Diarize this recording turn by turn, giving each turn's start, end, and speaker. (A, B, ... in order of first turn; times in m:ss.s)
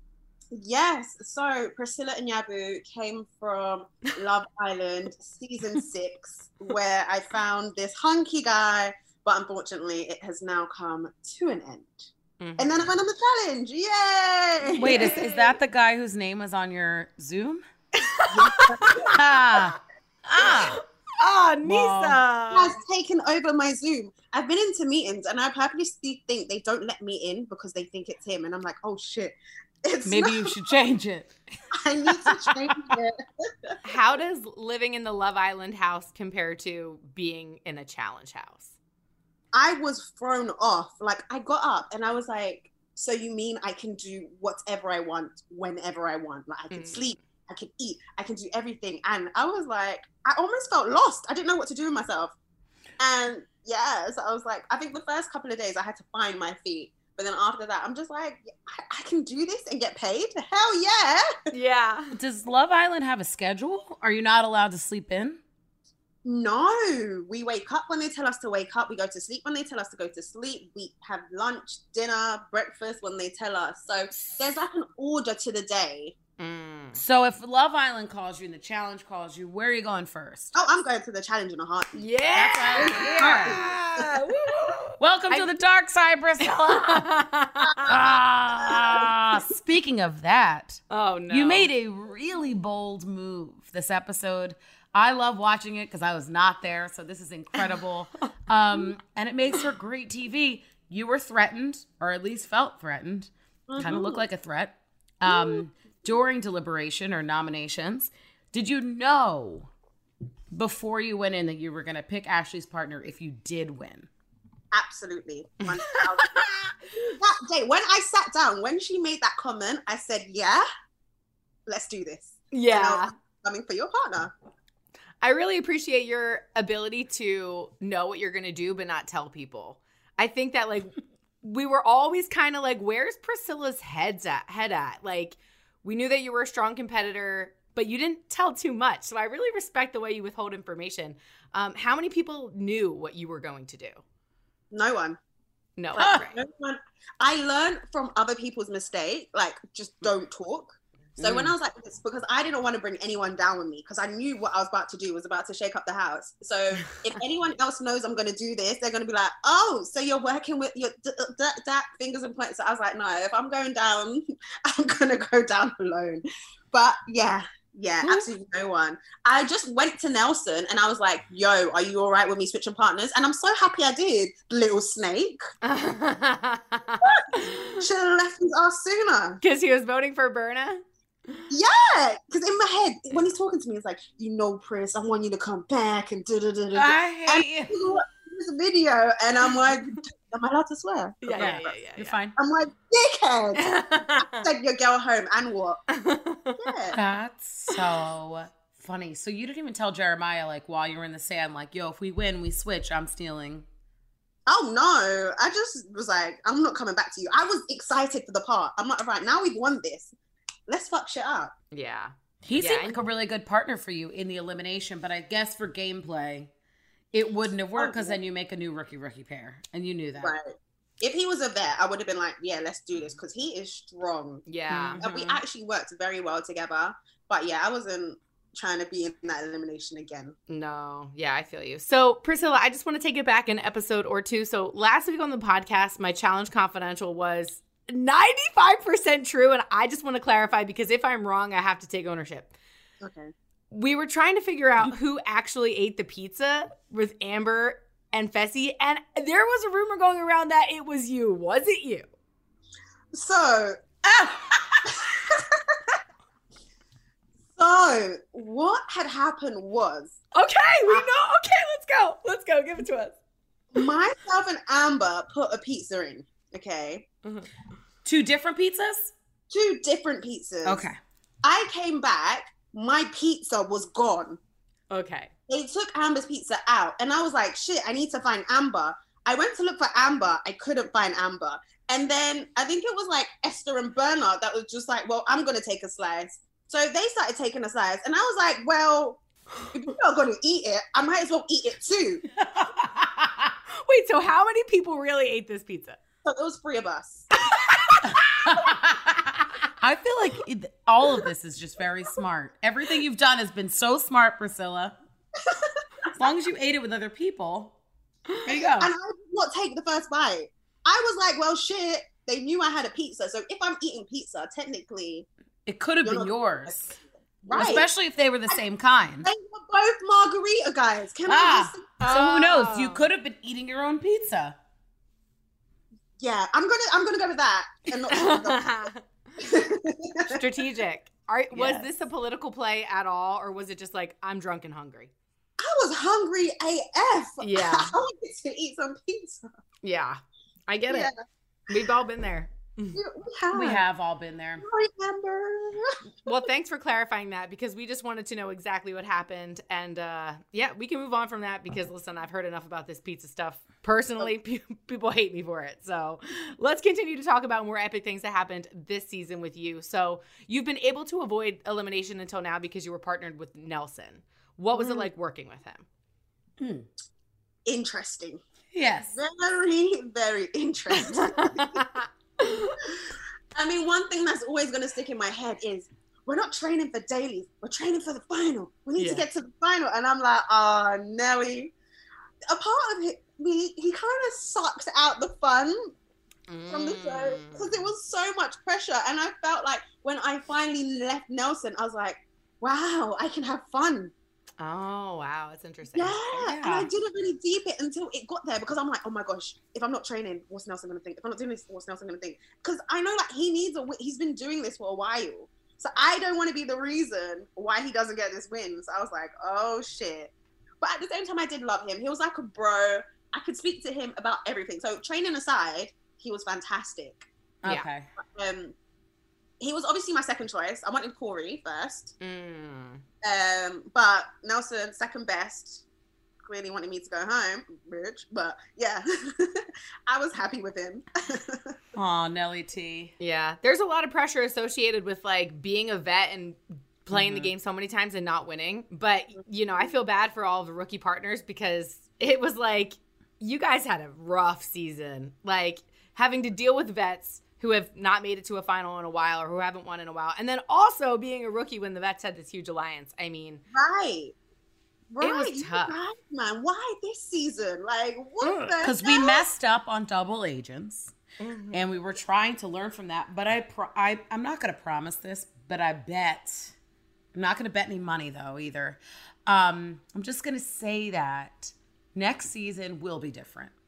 0:00.5-0:15.2 A
0:12.4-0:12.9 B
0:14.7-0:15.5 B
0:14.8-0:17.6 C
0:18.0-0:19.8 B
0:18.3-0:19.2 A
0:19.1-0:20.8 C
0:20.4-0:22.8 B
0:21.6-0:22.2 C
0:22.5-0:30.5 A
0:30.0-0:31.4 C
0:31.8-0:33.8 A
0:32.1-0:33.0 C
0:33.8-0:38.7 B
0:39.5-0:52.4 A
0:46.7-0:47.2 B
0:53.0-1:01.3 A
1:01.5-1:02.2 B
1:02.2-1:05.4 C
1:06.2-1:16.2 A
1:16.4-1:17.0 B
1:17.0-1:20.5 C
1:20.6-1:22.0 A
1:22.0-1:25.6 B
1:22.4-1:23.7 C
1:22.7-1:24.1 A
1:25.0-1:27.1 C
1:26.4-1:28.0 B
1:27.9-1:49.7 C
1:30.9-1:31.7 B
1:43.7-1:44.2 A
1:45.3-1:45.6 A
1:50.5-1:54.1 C
1:54.7-2:00.7 A
1:55.8-1:56.6 B
2:01.7-2:04.3 A
2:02.5-2:03.1 B
2:05.2-2:24.0 B
2:24.7-2:25.2 A
2:25.8-2:26.4 B
2:26.0-2:26.2 C
2:26.0-2:55.4 A
2:31.2-2:31.5 B
2:55.6-2:57.8 B
2:57.0-2:59.4 A
2:59.4-3:01.5 B
3:01.5-3:11.6 A
3:06.8-3:07.7 C
3:11.2-3:12.2 B
3:11.4-3:12.4 C
3:12.4-3:15.8 A
3:13.6-3:14.4 B
3:15.9-3:16.6 B
3:16.6-3:17.0 A
3:16.9-3:23.7 C
3:24.5-3:30.1 A
3:30.7-3:31.5 A
3:31.7-3:33.0 B
3:32.4-3:36.5 C
3:37.1-3:40.4 C
3:37.8-3:38.2 A
3:40.2-3:44.5 A
3:44.5-3:45.0 B
3:44.7-3:45.4 C
3:45.0-3:50.4 A
3:50.5-4:02.5 B
4:03.0-4:03.3 A
4:03.7-4:12.1 B
4:13.1-4:13.8 A
4:14.1-4:15.0 C
4:14.9-4:16.0 A
4:17.6-4:20.2 A
4:20.3-4:23.2 B
4:23.7-4:27.0 A
4:27.2-4:27.5 B
4:28.0-4:29.1 C
4:29.5-4:30.8 A
4:30.6-4:31.0 C
4:31.4-4:34.4 A
4:34.9-4:35.3 B
4:35.5-4:49.2 A
4:49.7-4:52.3 A
4:52.4-4:53.6 C
4:53.8-4:56.0 B
4:56.3-4:57.3 A
4:57.6-4:58.5 B
4:58.0-5:05.0 C
5:05.5-5:06.1 A
5:06.2-5:07.8 C
5:08.4-5:08.9 C
5:08.5-5:15.3 A
5:15.7-5:17.0 C
5:16.0-5:17.9 A
5:17.5-5:19.3 C
5:19.2-5:22.0 A
5:21.3-5:24.6 C
5:22.0-5:23.1 B
5:26.2-5:28.8 A
5:28.1-5:29.0 B
5:29.4-5:30.5 A
5:30.3-5:35.1 B
5:31.5-5:31.9 C
5:35.6-5:39.5 A
5:37.4-5:37.9 B
5:39.8-5:41.1 B
5:40.9-5:41.2 A
5:41.7-5:43.0 B
5:42.9-5:43.8 A
5:43.5-5:44.7 C
5:44.6-5:46.0 A
5:46.2-6:05.8 B
6:06.6-6:06.9 C
6:07.7-6:08.4 A
6:08.7-6:09.2 C
6:09.1-6:11.8 A
6:11.1-6:12.9 B
6:13.6-6:21.7 A
6:19.0-6:19.3 B
6:22.5-6:25.9 A
6:26.5-6:27.8 B
6:26.7-6:34.1 A
6:34.6-6:36.8 B
6:36.0-6:57.3 A
6:36.5-6:36.9 C
6:57.6-6:58.1 C
6:58.2-6:58.8 A
6:59.6-7:02.1 A
7:02.2-7:03.0 B
7:03.2-7:05.8 A
7:06.4-7:11.7 A
7:12.0-7:13.1 C
7:13.2-7:33.6 B
7:17.1-7:17.5 C
7:33.7-7:34.4 A
7:35.1-7:39.4 A
7:35.2-7:36.0 B
7:38.8-7:41.1 C
7:41.4-7:41.8 B
7:41.7-7:46.8 C
7:47.3-7:53.7 C